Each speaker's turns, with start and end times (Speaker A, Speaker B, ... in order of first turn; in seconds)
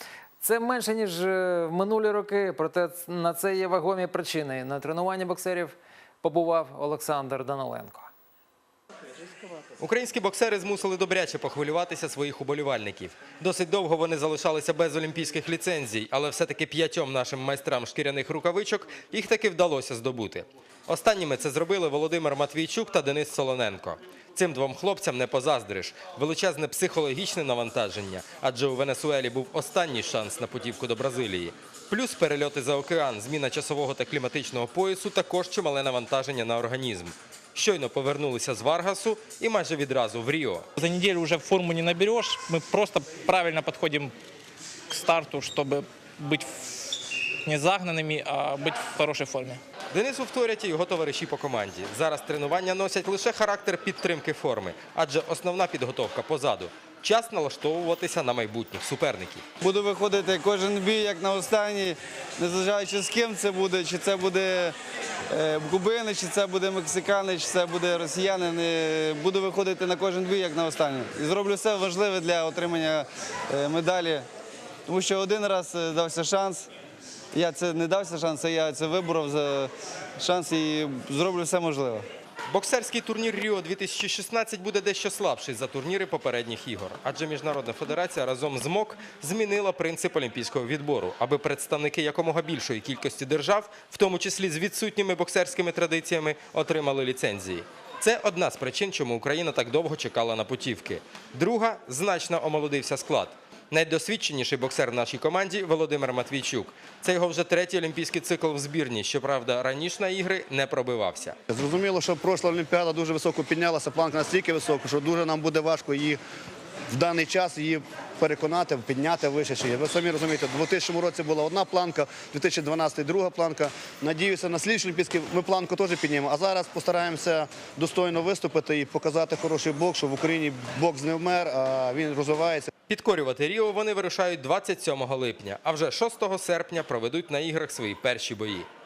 Speaker A: 0.4-8.1
Speaker B: 9.8-40.7, 49.9-59.4, 82.5-111.3, 132.9-138.7
Speaker C: 40.8-44.1, 44.9-49.6
Speaker D: 59.6-64.8, 65.3-74.3, 74.9-76.7, 77.3-82.0
Speaker E: 111.5-116.2, 116.9-132.7